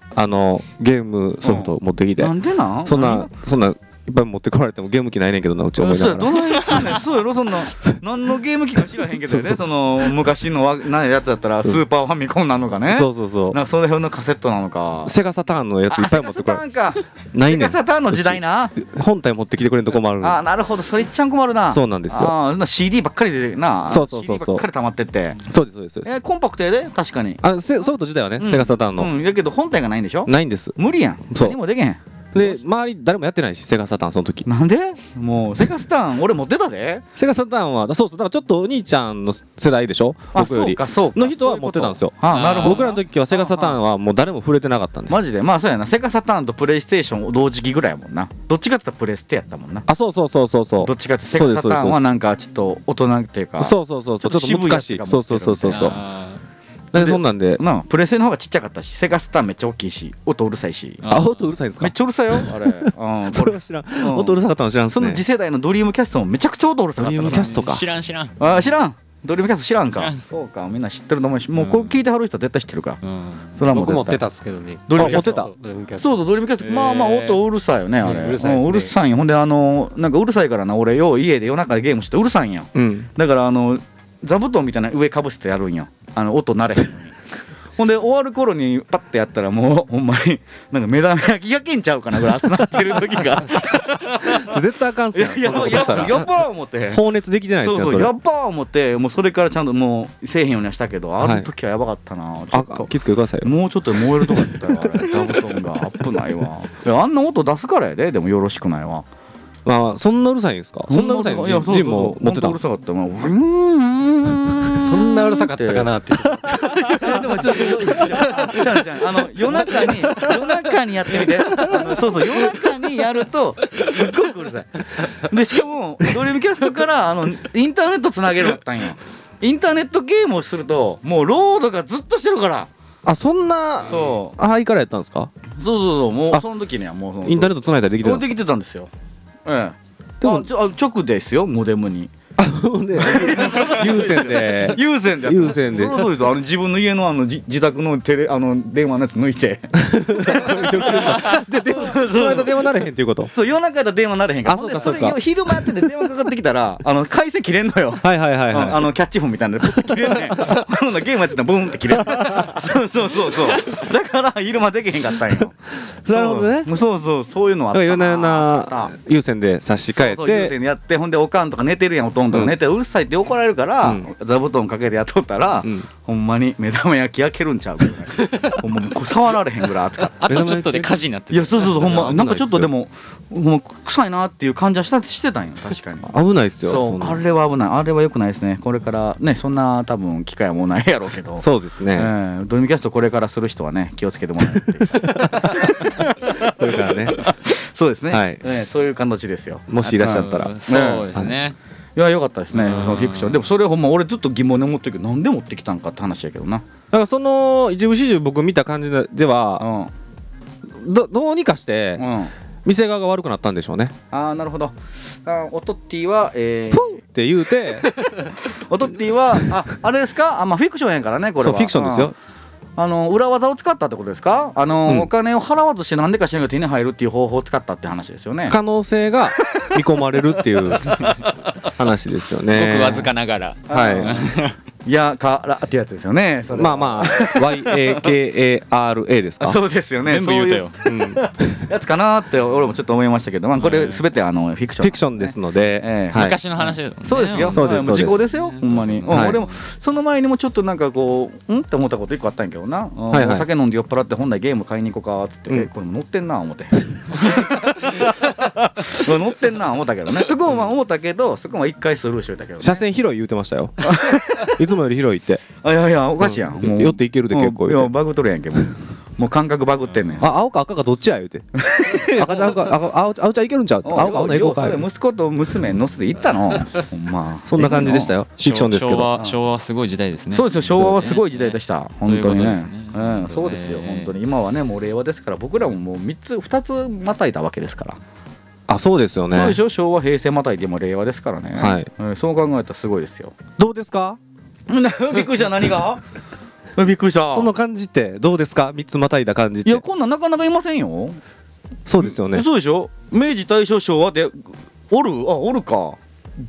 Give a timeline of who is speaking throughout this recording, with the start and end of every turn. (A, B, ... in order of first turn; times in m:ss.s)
0:00.1-0:02.3 A
0:01.4-0:03.3 B
0:02.8-0:07.0 A
0:05.8-0:15.1 B
0:09.0-0:10.2 A
0:12.9-0:13.6 A
0:15.1-0:16.6 A
0:15.9-0:18.7 B
0:17.3-0:20.4 A
0:20.2-0:25.4 B
0:21.7-0:22.3 A
0:23.9-0:24.6 A
0:25.4-0:26.1 A
0:26.0-0:27.4 B
0:27.4-0:29.1 A
0:28.4-0:32.6 B
0:30.3-0:30.8 A
0:31.3-0:31.6 A
0:32.3-0:34.5 A
0:34.5-0:37.0 B
0:37.2-0:45.2 A
0:40.3-0:43.8 B
0:42.3-0:43.0 C
0:45.1-0:49.9 B
0:49.9-0:52.1 A
0:50.8-0:55.9 B
0:53.6-0:56.0 A
0:55.7-0:56.4 C
0:56.9-0:57.6 A
0:56.9-1:01.0 B
1:01.0-1:01.6 C
1:01.1-1:05.2 A
1:01.8-1:04.4 B
1:04.9-1:07.5 B
1:07.0-1:07.8 A
1:07.2-1:08.7 C
1:08.4-1:13.0 B
1:10.0-1:10.2 C
1:11.6-1:12.0 C
1:13.0-1:13.5 C
1:13.6-1:14.2 B
1:13.7-1:16.2 D
1:14.9-1:27.1 B
1:15.0-1:15.5 A
1:16.6-1:17.4 C
1:18.0-1:18.9 D
1:22.7-1:23.1 A
1:27.8-1:34.6 B
1:34.2-1:36.3 A
1:35.1-1:37.0 B
1:36.9-1:38.1 A
1:37.6-1:42.9 B
1:41.2-1:41.5 A
1:42.5-1:43.5 A
1:43.4-1:49.1 B
1:44.2-1:45.1 A
1:49.6-1:52.6 A
1:50.9-1:55.9 B
1:54.8-1:58.6 D
1:56.6-2:12.7 B
2:13.0-2:15.3 A
2:13.9-2:14.4 B
2:15.6-2:18.9 B
2:17.2-2:18.3 A
2:19.4-2:22.1 B
2:20.2-2:20.5 A
2:22.4-2:26.2 A
2:23.0-2:32.6 B
2:29.8-2:33.3 A
2:33.3-2:48.9 B
2:34.4-2:35.8 A
2:38.0-2:38.9 A
2:39.8-2:40.6 A
2:42.1-2:42.5 A
2:45.9-2:46.8 A
2:47.7-2:50.6 A
2:49.9-3:00.2 B
2:53.8-2:54.1 A
2:55.6-2:55.9 A
3:00.2-3:02.3 C
3:00.3-3:01.0 A
3:01.3-3:19.6 B
3:01.6-3:02.7 A
3:06.1-3:07.2 A
3:11.4-3:12.1 A
3:14.9-3:15.8 A
3:16.4-3:17.2 A
3:18.1-3:18.4 A
3:19.7-3:20.5 A
3:19.8-3:21.6 C
3:20.7-3:21.1 B
3:22.0-3:26.6 B
3:22.5-3:23.4 C
3:26.9-3:29.6 A
3:29.6-3:29.9 B
3:30.7-3:32.1 A
3:32.0-3:32.3 B
3:32.6-3:33.9 A
3:34.1-3:37.0 B
3:36.7-3:37.9 A
3:38.1-3:42.1 B
3:41.4-3:42.2 A
3:42.8-3:48.6 B
3:44.9-3:45.1 A
3:48.5-3:51.0 A
3:50.7-3:51.3 B
3:51.8-3:53.1 A
3:52.5-3:54.6 C
3:53.7-3:54.2 A
3:53.7-3:54.2 B
3:54.9-3:58.1 B
3:56.5-3:59.6 A
3:59.4-4:22.8 B
4:00.1-4:00.8 C
4:00.9-4:01.6 A
4:03.6-4:04.0 C
4:04.8-4:06.4 A
4:06.1-4:09.6 C
4:07.4-4:08.2 A
4:09.1-4:09.4 A
4:13.1-4:13.4 A
4:22.6-4:25.4 A
4:23.8-4:24.6 B
4:25.6-4:30.3 B
4:26.2-4:27.9 A
4:29.9-4:30.3 C
4:30.2-4:34.9 A
4:31.6-4:32.6 B
4:33.8-4:38.1 B
4:37.4-4:39.1 A
4:38.4-4:44.1 C
4:40.3-4:48.0 B
4:48.7-4:49.6 A
4:49.3-4:53.4 B
4:51.6-4:51.9 A
4:53.6-4:54.2 A
4:54.7-4:56.0 B
4:56.8-4:57.5 B
4:57.3-4:59.8 A
4:59.6-5:01.2 B
5:01.9-5:02.4 A
5:02.0-5:06.0 B